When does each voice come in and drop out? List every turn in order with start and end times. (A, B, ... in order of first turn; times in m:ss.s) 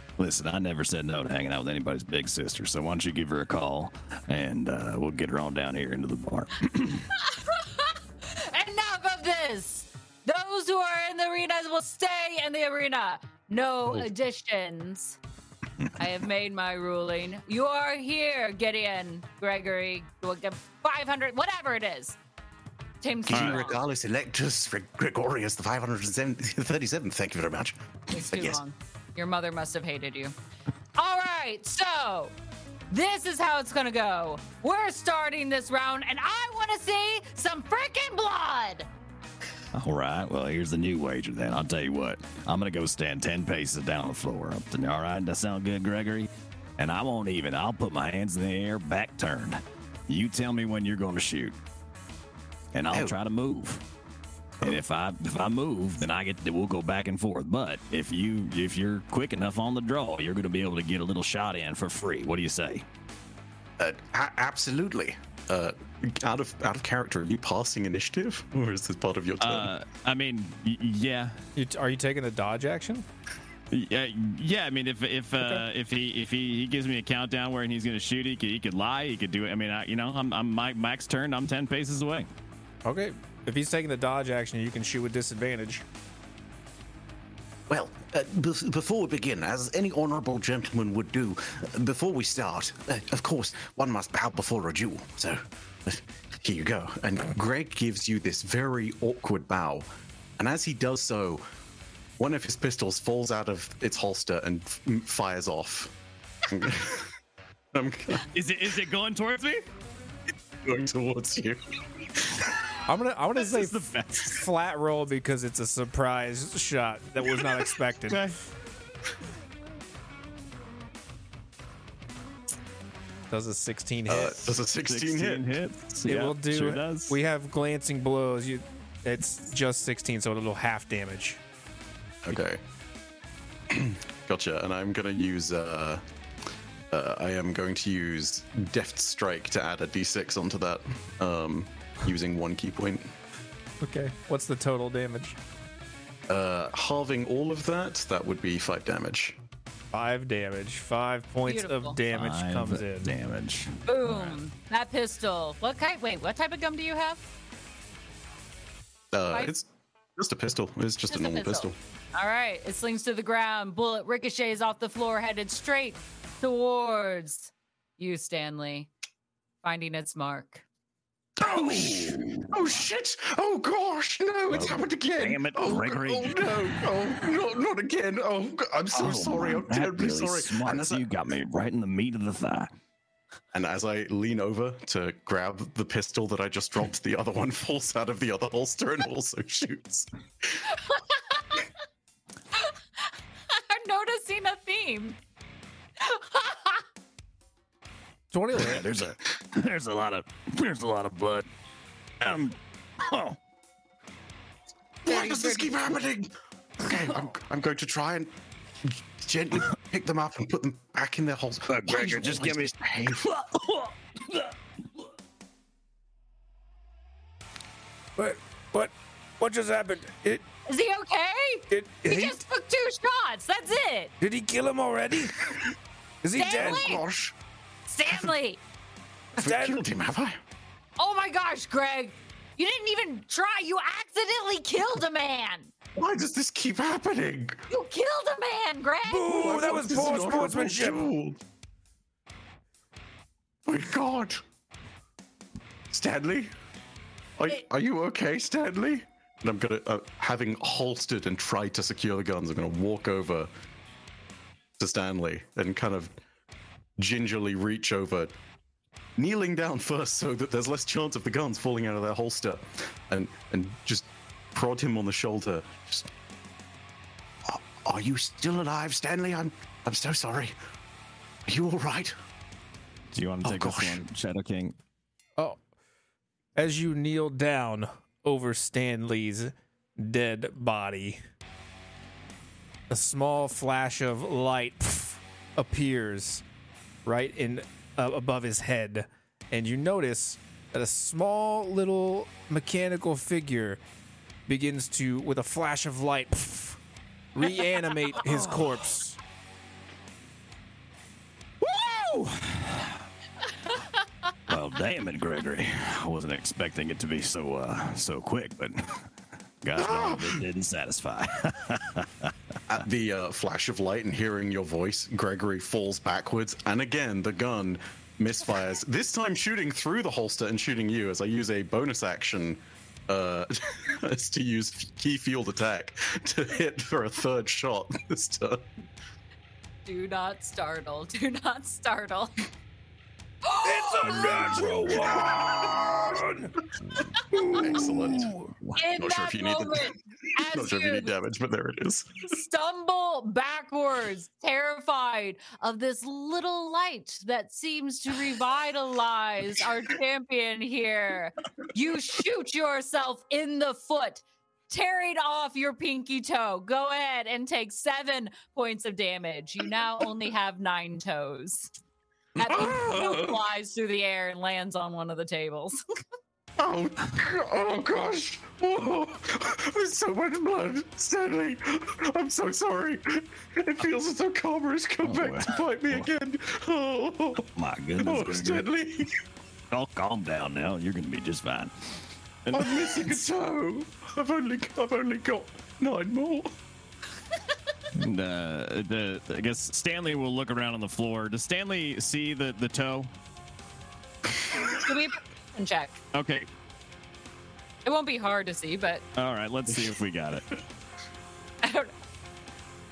0:00.2-0:07.1 A
0:07.2-0:15.2 B
0:16.0-0:22.2 B
0:23.0-0:23.8 B
0:23.3-0:28.6 C
0:23.3-0:23.6 A
0:28.1-0:30.3 B
0:31.0-0:32.3 B
0:32.9-0:38.9 B
0:39.7-0:51.6 A
0:52.7-0:53.8 A
0:54.6-1:02.8 A
1:03.8-1:09.7 C
1:09.4-1:11.4 A
1:11.6-1:13.1 D
1:13.7-1:22.3 A
1:22.8-1:25.8 D
1:27.7-1:41.4 C
1:42.2-1:47.1 C
1:47.7-1:48.2 C
1:48.2-1:49.6 A
1:50.6-1:51.6 C
1:52.2-1:52.5 C
1:52.9-1:58.2 D
1:53.5-1:54.4 A
1:58.1-1:58.3 A
2:03.3-2:04.5 D
2:04.1-2:05.5 C
2:04.8-2:07.2 A
2:06.1-2:11.4 D
2:12.2-2:12.6 C
2:13.7-2:16.0 C
2:16.9-2:23.1 C
2:23.8-2:25.4 D
2:26.3-2:29.4 C
2:29.9-2:33.2 D
2:31.5-2:32.0 B
2:32.1-2:34.4 A
2:33.9-2:37.2 B
2:39.1-2:41.8 C
2:41.1-2:48.9 B
2:49.6-2:50.6 B
2:51.4-3:01.1 C
2:51.4-2:52.8 A
2:54.5-2:56.9 A
2:58.9-3:02.7 A
3:03.5-3:10.1 C
3:10.8-3:11.6 B
3:13.5-3:15.2 B
3:16.0-3:16.8 B
3:18.3-3:18.9 D
3:18.5-3:21.5 A
3:22.2-3:23.4 A
3:25.0-3:28.3 C
3:28.8-3:33.3 C
3:31.7-3:34.5 A
3:38.2-3:40.4 E
3:40.7-3:44.1 B
3:41.7-3:42.4 E
3:44.2-3:45.6 E
3:46.2-3:47.0 E
3:46.3-3:47.0 B
3:46.5-3:47.3 C
3:47.9-3:48.6 B
3:49.4-3:49.8 E
3:49.4-3:50.4 C
3:51.0-3:55.7 B
3:56.0-3:57.6 C
3:57.7-4:00.2 B
3:59.0-4:01.0 E
3:59.3-4:01.4 C
4:03.7-4:04.4 C
4:05.9-4:06.5 C
4:07.4-4:13.5 C
4:14.8-4:16.2 C
4:17.0-4:18.3 C
4:19.2-4:26.1 C
4:27.4-4:30.5 C
4:31.5-4:32.2 C
4:33.1-4:34.8 A
4:33.4-4:34.0 C
4:36.6-4:41.2 D
4:42.9-4:46.4 D
4:47.0-4:53.8 D
4:54.5-4:56.8 D
4:57.4-4:59.2 D
4:58.3-4:58.7 A
5:01.6-5:03.0 A
5:04.5-5:09.1 A
5:09.6-5:12.3 A
5:09.8-5:10.4 C
5:12.7-5:28.7 C
5:29.9-5:32.5 B
5:33.4-5:34.9 B
5:33.6-5:36.6 E
5:35.0-5:35.6 C
5:37.3-5:42.3 C
5:37.4-5:38.4 E
5:38.8-5:41.1 B
5:42.3-6:01.7 B
6:02.4-6:03.4 C
6:02.4-6:05.8 B
6:06.6-6:17.5 C
6:15.0-6:16.1 A
6:17.5-6:18.7 A
6:18.0-6:19.2 C
6:19.7-6:23.2 A
6:22.5-6:26.5 C
6:28.0-6:33.1 A
6:34.6-6:36.0 B
6:36.1-6:36.5 A
6:37.8-6:39.0 B
6:39.2-6:40.5 A
6:41.6-6:41.9 B